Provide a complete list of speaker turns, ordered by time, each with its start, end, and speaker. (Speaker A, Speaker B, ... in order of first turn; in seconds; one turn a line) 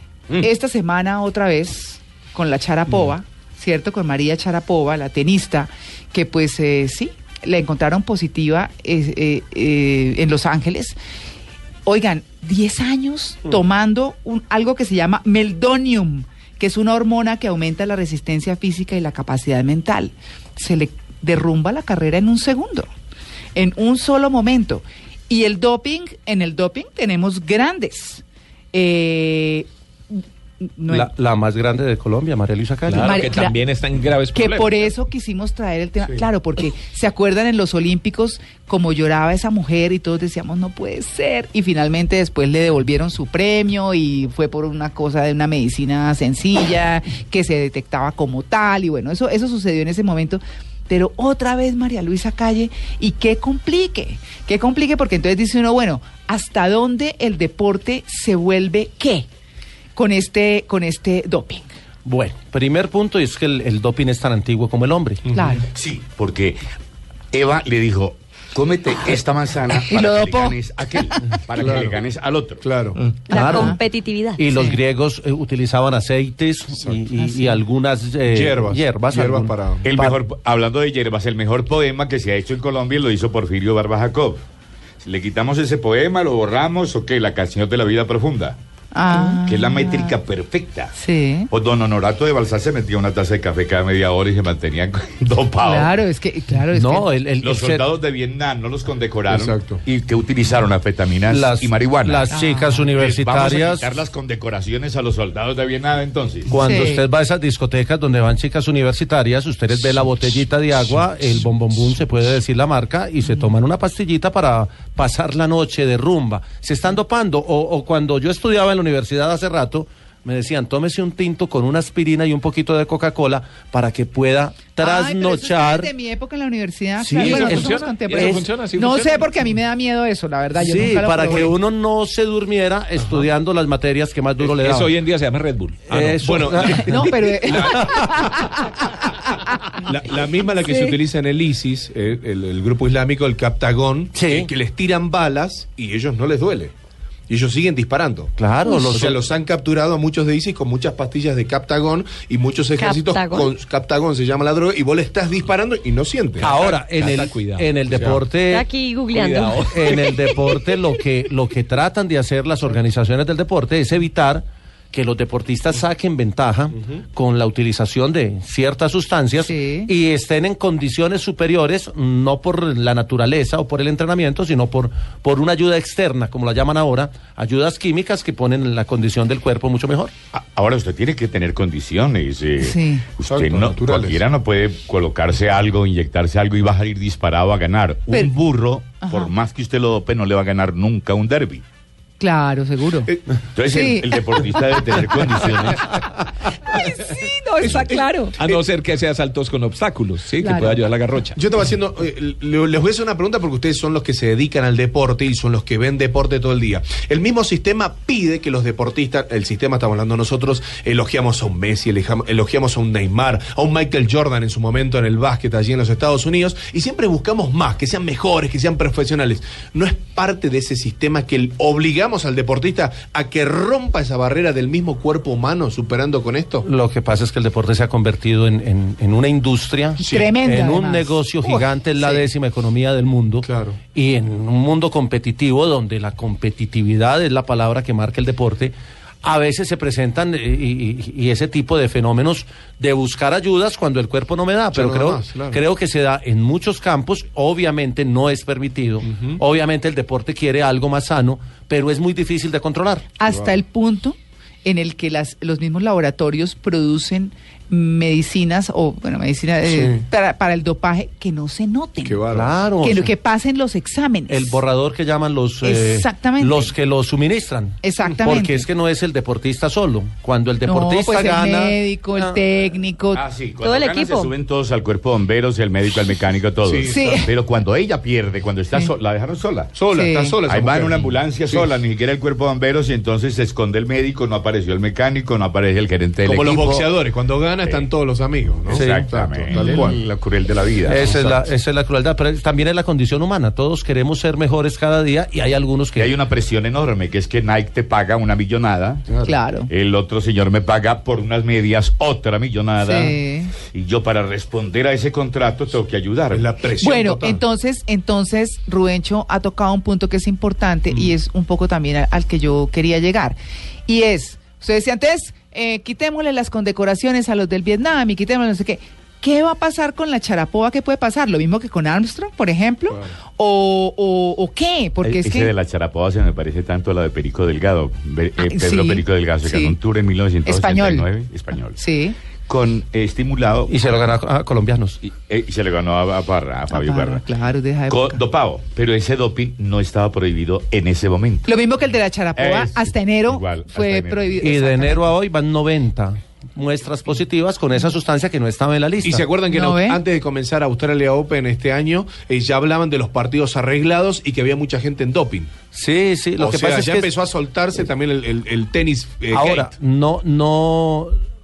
Speaker A: 0.4-11.0
Speaker A: 11.8-22.9
Speaker A: 23.5-30.2
Speaker A: 30.8-31.1
Speaker B: 30.9-33.3
Speaker C: 32.9-34.9
Speaker A: 33.0-33.7
Speaker A: 34.3-59.2
Speaker A: 60.0-61.7
Speaker B: 62.0-65.2
Speaker D: 65.2-65.6
Speaker A: 65.3-65.6
Speaker E: 65.7-66.6
Speaker E: 67.3-72.6
Speaker A: 69.8-70.5
Speaker D: 71.5-72.0
Speaker D: 72.6-73.0
Speaker F: 73.3-74.4
Speaker B: 73.3-73.8
Speaker A: 73.3-73.8
Speaker B: 74.4-80.1
Speaker A: 74.5-74.8
Speaker D: 76.7-77.0
Speaker A: 77.2-77.6
Speaker D: 78.3-80.0
Speaker E: 79.8-84.4
Speaker E: 85.0-88.6
Speaker A: 88.9-90.1
Speaker E: 89.4-90.9
Speaker A: 90.9-91.5
Speaker E: 91.5-96.0
Speaker A: 95.6-97.1
Speaker B: 96.7-97.9
Speaker E: 97.4-102.3
Speaker D: 99.3-99.8
Speaker B: 101.3-103.9
Speaker A: 102.3-102.9
Speaker E: 102.9-106.5
Speaker B: 106.5-125.9
Speaker A: 106.5-107.0
Speaker A: 124.8-131.5
Speaker B: 127.0-128.5
Speaker C: 127.1-129.3
Speaker B: 130.6-134.9
Speaker C: 134.4-136.8
Speaker B: 135.9-138.1
Speaker D: 136.2-138.5
Speaker A: 136.8-138.7
Speaker D: 139.8-146.7
Speaker F: 140.6-141.0
Speaker B: 144.1-144.5
Speaker D: 147.3-156.6
Speaker B: 148.4-149.2
Speaker F: 152.8-153.5
Speaker C: 156.4-158.1
Speaker B: 156.4-180.1
Speaker D: 157.9-158.2
Speaker F: 158.5-160.5
Speaker A: 169.4-169.9
Speaker E: 180.3-191.6
Speaker A: 182.6-183.1
Speaker D: 183.2-184.2
Speaker A: 189.0-189.3
Speaker A: 192.2-194.8
Speaker E: 193.5-196.0
Speaker A: 196.7-198.4
Speaker C: 197.6-201.4
Speaker A: 200.4-200.8
Speaker D: 201.3-226.7
Speaker B: 226.6-253.1
Speaker A: 230.0-232.2
Speaker D: 230.0-230.3
Speaker D: 233.4-233.8
Speaker D: 244.7-245.6
Speaker D: 249.0-249.4
Speaker A: 253.2-262.2
Speaker D: 253.3-253.6
Speaker D: 259.7-260.0
Speaker D: 262.0-262.7
Speaker B: 262.3-263.1
Speaker A: 262.8-264.6
Speaker B: 264.3-272.4
Speaker A: 265.6-266.7
Speaker A: 267.8-268.6
Speaker A: 270.6-273.2
Speaker E: 273.1-279.7
Speaker F: 273.6-274.3
Speaker D: 276.6-277.3
Speaker A: 276.9-277.3
Speaker D: 279.7-281.7
Speaker A: 279.9-280.4
Speaker E: 280.5-286.9
Speaker D: 286.2-290.0
Speaker E: 287.6-287.9
Speaker E: 288.7-291.1
Speaker B: 288.7-289.8
Speaker B: 290.8-296.1
Speaker D: 291.0-291.4
Speaker E: 295.9-299.1
Speaker D: 299.1-299.3
Speaker A: 299.2-299.7
Speaker E: 299.7-306.5
Speaker A: 302.8-303.5
Speaker D: 306.3-307.4
Speaker A: 306.8-325.5
Speaker E: 325.0-331.8
Speaker A: 328.4-329.7
Speaker A: 330.4-331.1
Speaker A: 331.8-332.1
Speaker E: 332.5-333.7
Speaker B: 333.7-335.0
Speaker E: 335.0-337.2
Speaker A: 336.7-338.2
Speaker E: 337.9-341.6
Speaker A: 341.5-345.1
Speaker E: 342.3-344.6
Speaker B: 344.4-349.2
Speaker D: 349.0-355.5
Speaker A: 349.5-350.0
Speaker B: 355.7-357.1
Speaker D: 356.4-359.7
Speaker B: 359.3-361.2